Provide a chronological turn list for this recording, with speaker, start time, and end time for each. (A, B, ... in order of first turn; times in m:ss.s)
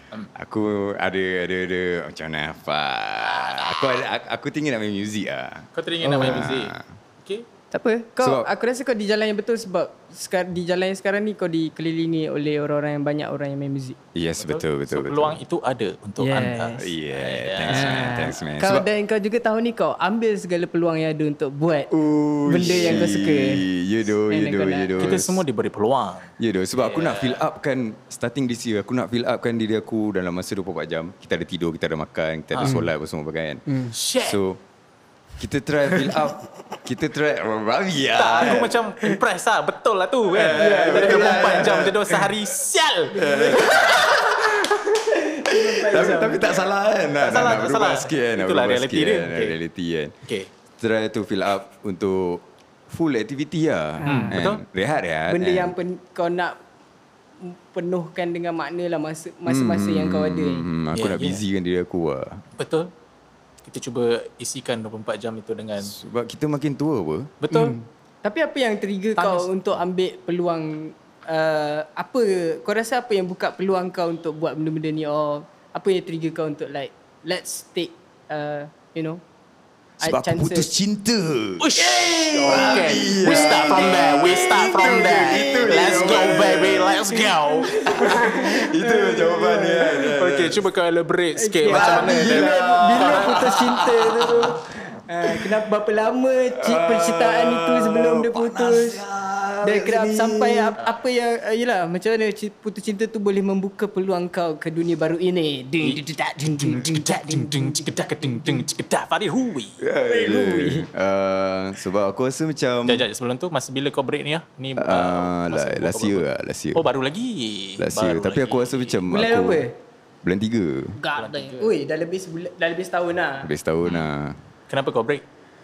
0:00.3-0:06.8 A
0:03.4-0:03.8 B
0:05.7-0:07.4 B
0:06.0-0:06.5 C
0:07.7-0:14.0 C
0:08.2-0:08.5 A
0:14.1-0:15.4 A
0:14.4-0:18.3 B
0:16.2-0:16.9 C
0:16.8-0:18.9 A
0:17.7-0:21.9 C
0:21.9-0:25.4 A
0:22.4-0:23.6 C
0:22.6-0:23.1 B
0:24.3-0:25.2 C
0:25.0-0:27.4 B
0:26.4-0:33.6 A
0:32.5-0:32.9 B
0:33.7-0:33.9 C
0:33.9-0:34.4 B
0:34.2-0:34.6 A
0:35.4-0:39.1 A
0:38.1-0:44.3 B
0:40.3-0:42.3 A
0:40.5-0:41.8 C
0:43.1-0:50.1 A
0:43.1-0:43.8 C
0:45.1-0:46.5 C
0:47.2-0:49.6 B
0:50.2-0:50.5 B
0:50.8-0:55.8 A
0:54.0-0:54.4 C
0:54.0-0:54.6 B
0:55.3-0:56.6 C
0:57.4-1:00.6 C
0:59.4-1:02.4 A
1:00.9-1:01.4 B
1:02.6-1:02.9 B
1:03.6-1:05.9 B
1:05.8-1:07.4 A
1:07.4-1:07.8 B
1:07.5-1:19.2 C
1:09.2-1:09.5 B
1:20.0-1:21.7 A
1:20.0-1:20.7 C
1:21.6-1:28.3 B
1:21.8-1:26.5 C
1:22.4-1:27.2 A
1:27.4-1:30.1 C
1:27.8-1:30.6 A
1:30.1-1:33.5 B
1:31.4-1:39.0 C
1:31.6-1:34.6 A
1:35.2-1:35.7 A
1:36.5-1:40.8 A
1:39.6-1:48.6 C
1:45.8-1:49.8 B
1:49.8-1:53.0 A
1:50.1-1:50.9 C
1:52.8-1:59.0 B
1:54.8-1:56.8 A
1:57.8-1:59.6 A
1:59.1-1:59.7 C
2:00.2-2:01.0 A
2:01.0-2:03.5 C
2:01.1-2:01.7 B
2:03.4-2:04.4 A
2:04.7-2:05.2 B